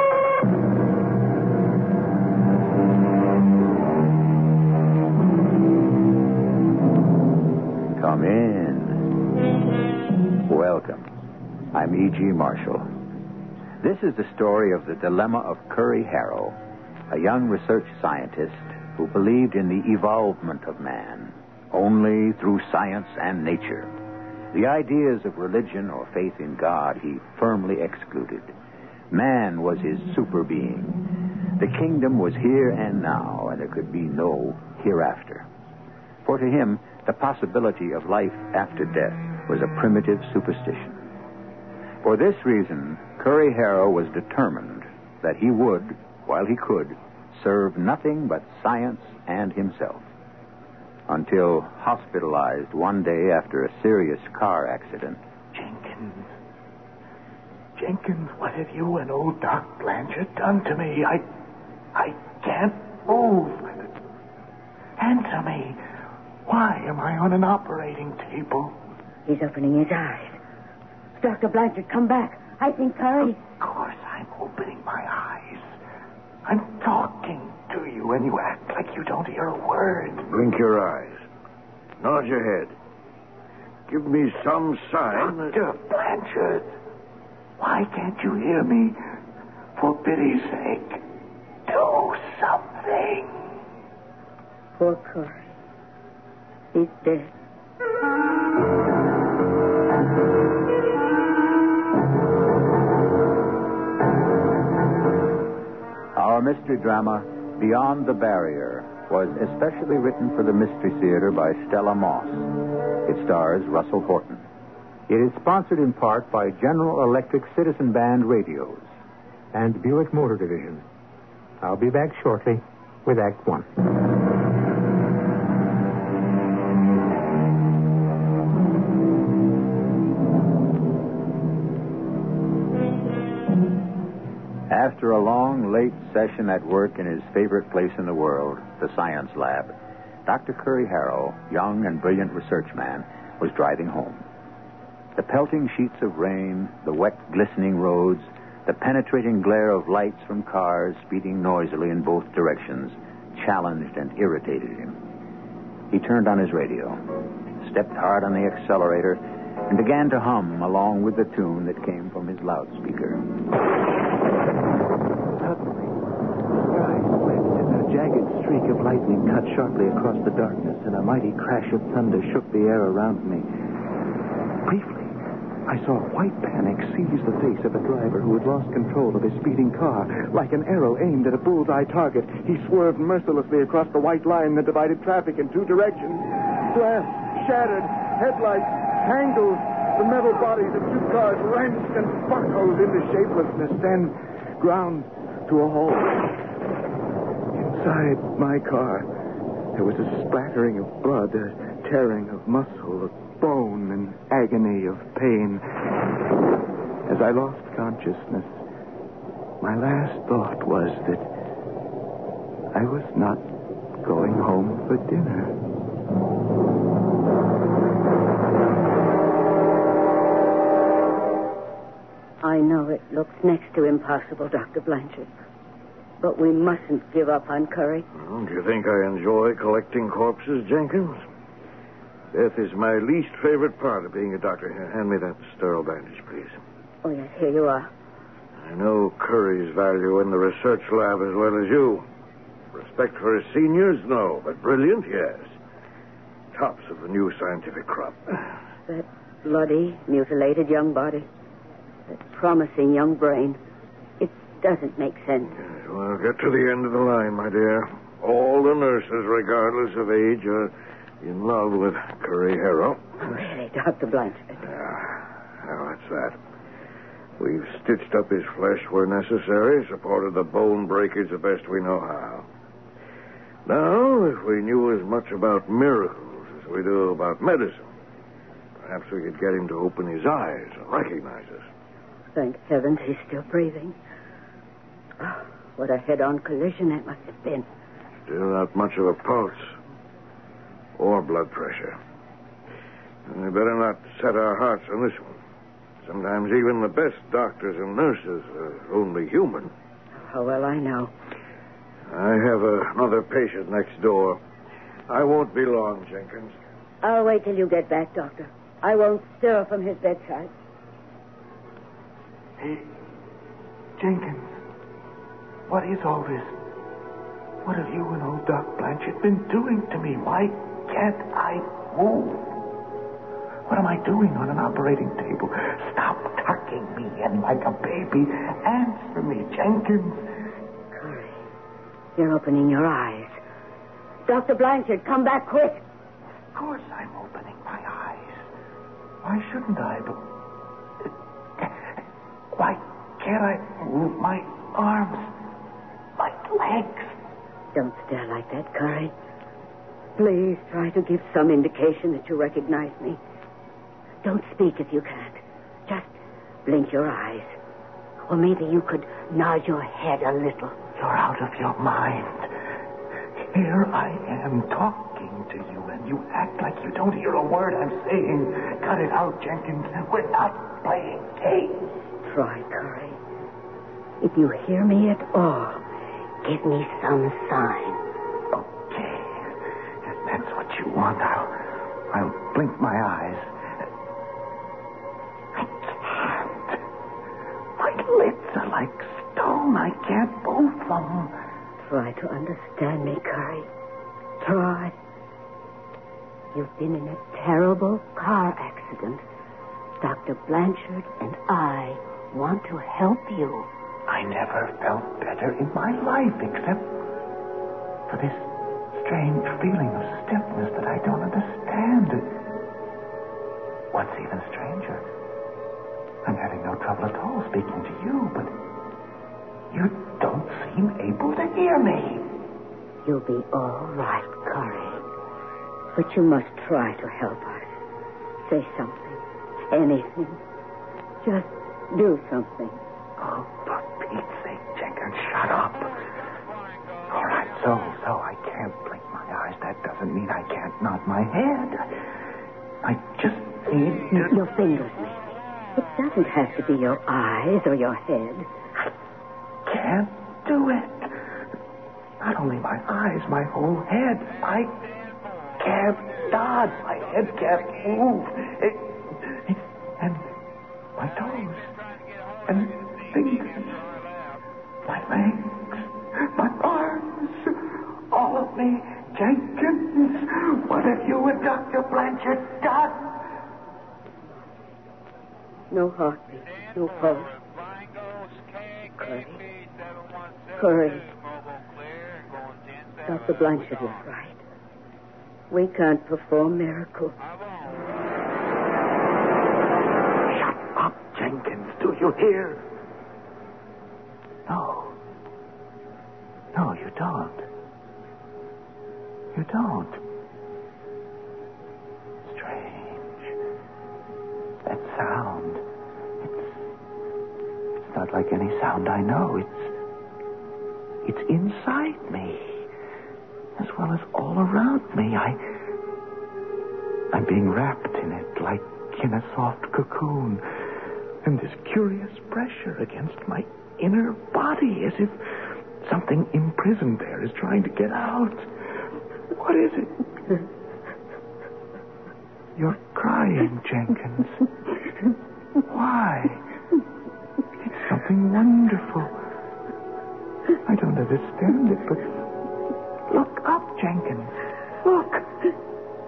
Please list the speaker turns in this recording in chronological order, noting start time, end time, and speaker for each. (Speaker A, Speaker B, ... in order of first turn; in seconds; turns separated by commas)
Speaker A: 8.0-9.1, Speaker A: 10.4-11.1, Speaker A: 11.7-12.9, Speaker A: 13.8-16.6, Speaker A: 17.1-23.9, Speaker A: 24.5-28.5, Speaker A: 29.1-31.0, Speaker A: 31.6-35.5, Speaker A: 36.2-41.0, Speaker A: 42.0-50.1, Speaker A: 51.1-55.2, Speaker B: 55.5-56.3, Speaker B: 57.8-61.3, Speaker B: 62.0-63.9, Speaker B: 65.0-65.8, Speaker B: 66.5-68.8, Speaker C: 69.3-70.4, Speaker C: 71.2-73.4, Speaker B: 73.4-75.7, Speaker B: 76.5-80.3, Speaker D: 80.2-81.2, Speaker D: 82.0-82.7, Speaker D: 83.9-85.6, Speaker B: 85.1-86.8, Speaker B: 87.6-89.0, Speaker B: 89.8-91.0, Speaker B: 91.7-93.5, Speaker C: 94.8-95.5, Speaker C: 96.7-97.3, Speaker A: 106.2-112.5, Speaker A: 113.0-114.5, Speaker A: 115.1-118.9, Speaker A: 119.5-120.8, Speaker A: 121.6-123.8, Speaker A: 134.7-139.7, Speaker A: 140.2-144.2, Speaker A: 145.2-155.0, Speaker A: 155.9-157.0, Speaker A: 157.6-163.3, Speaker B: 165.4-165.9, Speaker B: 166.7-173.5, Speaker B: 174.6-175.2, Speaker B: 175.7-196.4, Speaker B: 197.6-199.1, Speaker B: 199.8-205.8, Speaker B: 207.1-208.5, Speaker B: 209.6-211.3, Speaker B: 212.7-213.4, Speaker B: 214.0-215.6, Speaker C: 222.4-225.3, Speaker C: 226.2-228.1, Speaker D: 228.2-231.2, Speaker D: 232.3-236.6, Speaker C: 237.0-237.9, Speaker D: 238.6-242.1, Speaker D: 242.7-245.5, Speaker D: 246.5-248.6, Speaker C: 248.9-251.3, Speaker C: 252.1-253.6, Speaker C: 254.2-255.6, Speaker D: 255.6-263.2, Speaker C: 263.2-264.6, Speaker D: 264.6-266.4, Speaker D: 267.4-272.5, Speaker D: 273.7-277.9, Speaker D: 278.8-281.7, Speaker C: 282.4-284.0, Speaker C: 285.2-287.7, Speaker D: 288.3-289.7, Speaker D: 291.0-292.0, Speaker D: 293.3-295.4, Speaker D: 296.1-299.7, Speaker C: 300.2-301.1, Speaker D: 302.1-304.4, Speaker D: 305.1-306.5, Speaker C: 307.0-310.5, Speaker B: 312.6-312.9, Speaker B: 314.0-314.5, Speaker B: 315.7-316.6, Speaker B: 317.6-322.7, Speaker B: 323.7-330.4, Speaker C: 330.9-331.4, Speaker C: 332.2-333.4, Speaker C: 334.3-335.8, Speaker B: 336.5-338.5, Speaker B: 339.2-340.3, Speaker B: 341.6-341.8, Speaker B: 342.5-345.4, Speaker B: 346.2-347.1, Speaker C: 347.7-349.1, Speaker C: 350.2-353.2, Speaker C: 354.2-356.1, Speaker C: 356.7-357.6, Speaker C: 358.3-360.9, Speaker B: 360.9-362.7, Speaker B: 363.4-371.9, Speaker C: 372.2-373.2, Speaker C: 374.2-375.8, Speaker C: 376.4-378.0, Speaker B: 378.5-379.5, Speaker B: 380.1-383.5, Speaker B: 385.5-386.8, Speaker B: 387.8-391.3, Speaker C: 391.8-393.7, Speaker C: 394.4-394.9, Speaker C: 396.5-399.2, Speaker C: 400.0-403.7, Speaker B: 404.1-407.0, Speaker B: 408.1-412.4, Speaker B: 413.9-415.0, Speaker B: 416.2-418.6, Speaker B: 419.7-422.4, Speaker C: 423.1-425.0, Speaker C: 425.9-427.7, Speaker C: 428.4-430.4, Speaker C: 431.2-432.8, Speaker B: 433.2-435.9, Speaker B: 437.1-442.0, Speaker B: 442.8-444.3, Speaker C: 444.1-448.5, Speaker B: 449.7-451.1, Speaker B: 452.2-454.8, Speaker B: 455.6-460.3, Speaker B: 461.0-461.7, Speaker B: 462.5-463.9, Speaker B: 464.9-473.2, Speaker C: 475.7-477.3, Speaker C: 479.0-479.4, Speaker C: 480.6-481.1, Speaker C: 483.1-484.4, Speaker C: 485.5-487.2, Speaker B: 490.3-492.6, Speaker B: 494.5-494.9, Speaker B: 496.5-497.5, Speaker B: 499.3-500.0, Speaker B: 502.3-503.4, Speaker B: 504.6-505.6, Speaker B: 506.2-506.6, Speaker B: 507.8-509.7, Speaker B: 511.0-512.7, Speaker B: 513.6-515.4, Speaker B: 517.1-520.5, Speaker B: 521.2-528.5, Speaker B: 529.3-530.0, Speaker B: 532.6-534.4, Speaker B: 535.7-536.5, Speaker B: 537.7-539.1, Speaker B: 540.7-542.1, Speaker B: 543.1-545.5